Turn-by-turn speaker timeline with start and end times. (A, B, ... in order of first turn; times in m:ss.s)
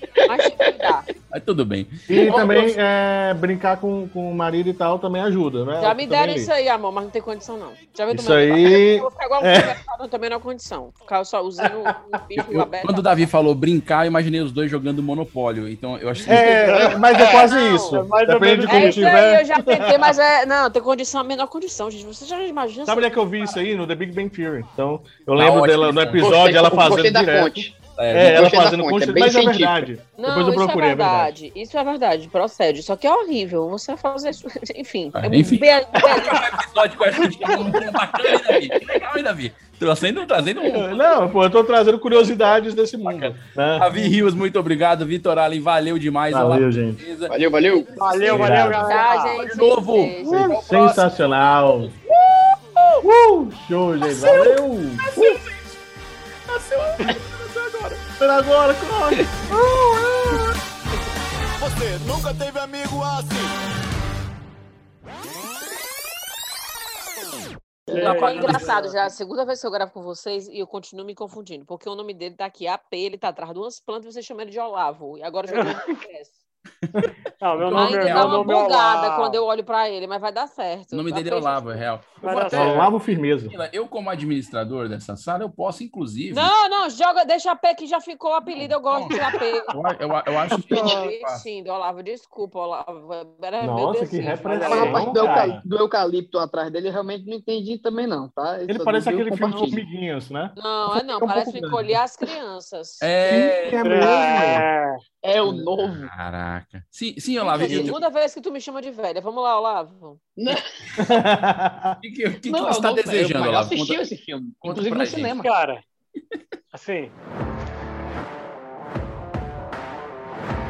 0:00.2-0:01.1 A
0:01.3-0:02.7 B
0:02.1-0:06.5 C
0:05.8-0:13.1 A
0:08.1-0:09.7 C
0:12.4-0:12.6 C
0:12.8-0:16.7 B
0:16.2-0:20.2 C
0:16.3-0:18.0 A
0:16.7-0:17.2 D
0:17.9-0:19.2 D
0:18.7-0:23.2 A
0:22.9-0:31.3 C
0:25.4-0:26.4 B
0:26.2-0:29.8 E
0:28.0-0:28.6 B
0:30.2-0:36.4 A
0:35.2-0:41.0 B
0:40.6-0:44.1 C
0:43.1-0:48.6 B
0:46.3-0:47.0 C
0:47.3-0:48.1 E
0:47.9-0:49.4 D
0:48.3-0:48.9 C
0:48.8-0:50.6 A
0:49.4-0:51.1 B
0:50.2-0:51.9 C
0:51.9-0:53.0 B
0:53.0-0:55.1 C
0:54.0-0:55.8 B
0:56.5-0:58.0 B
0:58.2-0:59.3 C
1:01.6-1:03.5 F
1:07.9-1:09.0 D
1:07.9-1:16.4 A
1:08.0-1:08.6 B
1:15.5-1:15.8 D
1:17.4-1:19.4 D
1:17.5-1:18.6 B
1:17.7-1:21.8 A
1:20.9-1:22.9 B
1:22.2-1:22.9 D
1:22.5-1:23.6 C
1:23.5-1:26.5 B
1:26.3-1:29.7 A
1:28.6-1:29.2 B
1:29.7-1:31.4 B
1:30.7-1:31.0 E
1:30.7-1:35.0 A
1:33.6-1:35.6 C
1:34.5-1:35.0 D
1:34.6-1:39.8 E
1:38.7-1:42.0 C
1:40.6-1:43.1 A
1:43.0-1:44.1 B
1:43.3-1:44.6 C
1:43.8-1:45.0 D
1:45.2-1:46.1 E
1:45.8-1:48.0 B
1:47.4-1:50.2 A
1:47.6-1:48.0 E
1:50.4-1:50.6 E
1:51.0-1:52.0 C
1:52.0-1:54.0 B
1:52.5-1:55.5 E
1:54.6-1:55.3 B
1:55.4-1:55.8 D
1:56.7-1:57.1 D